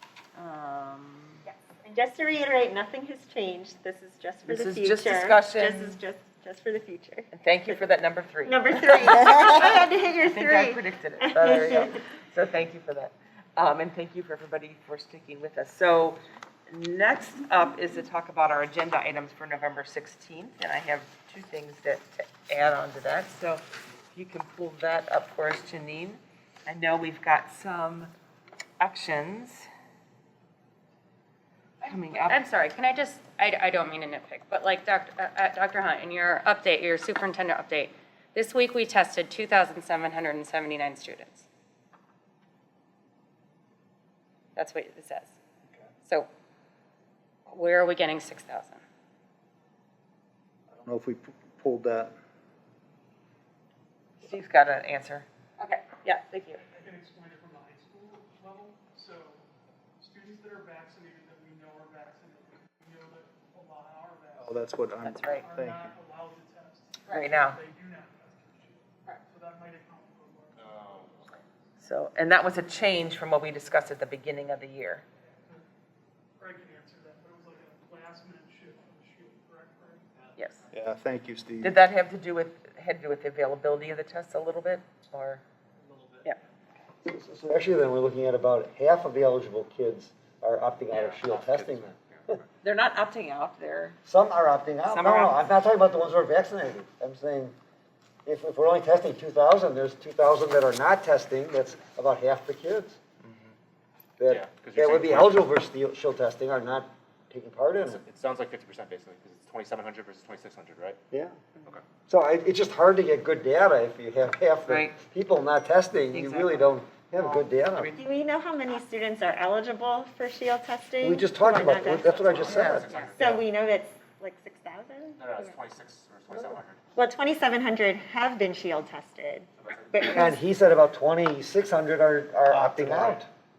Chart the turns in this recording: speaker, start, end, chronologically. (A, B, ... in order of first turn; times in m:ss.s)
0:00.4-0:01.4 A
0:01.7-0:07.8 B
0:04.5-0:06.0 A
0:07.3-0:16.2 A
0:08.4-0:11.9 B
0:16.7-0:28.1 A
0:28.8-0:29.7 A
0:31.8-0:32.4 A
0:31.8-0:41.5 C
0:44.6-0:45.4 C
0:47.5-0:48.8 C
0:50.7-0:52.1 D
0:54.2-0:55.3 A
0:56.7-0:59.5 E
1:00.0-1:04.8 E
1:04.4-1:06.0 D
1:05.0-1:05.5 A
1:05.3-1:11.4 E
1:07.1-1:07.6 A
1:10.6-1:11.3 F
1:11.8-1:15.0 A
1:16.4-1:20.0 E
1:20.4-1:20.7 A
1:20.7-1:21.8 D
1:21.6-1:25.4 A
1:27.0-1:32.4 G
1:30.9-1:32.4 F
1:32.6-1:34.0 A
1:34.0-1:37.6 G
1:34.8-1:35.5 A
1:38.3-1:43.0 G
1:43.2-1:43.6 F
1:44.2-1:48.0 G
1:44.3-1:45.4 F
1:47.8-1:51.0 F
1:51.1-1:51.4 G
1:52.1-1:58.0 G
1:54.7-1:55.0 A
1:56.1-1:58.0 A
1:58.0-2:05.6 B
2:01.0-2:02.7 G
2:02.0-2:03.4 F
2:02.5-2:02.9 A
2:05.2-2:06.8 F
2:07.0-2:10.4 B
2:09.6-2:10.2 F
2:10.1-2:13.3 G
2:12.5-2:13.2 D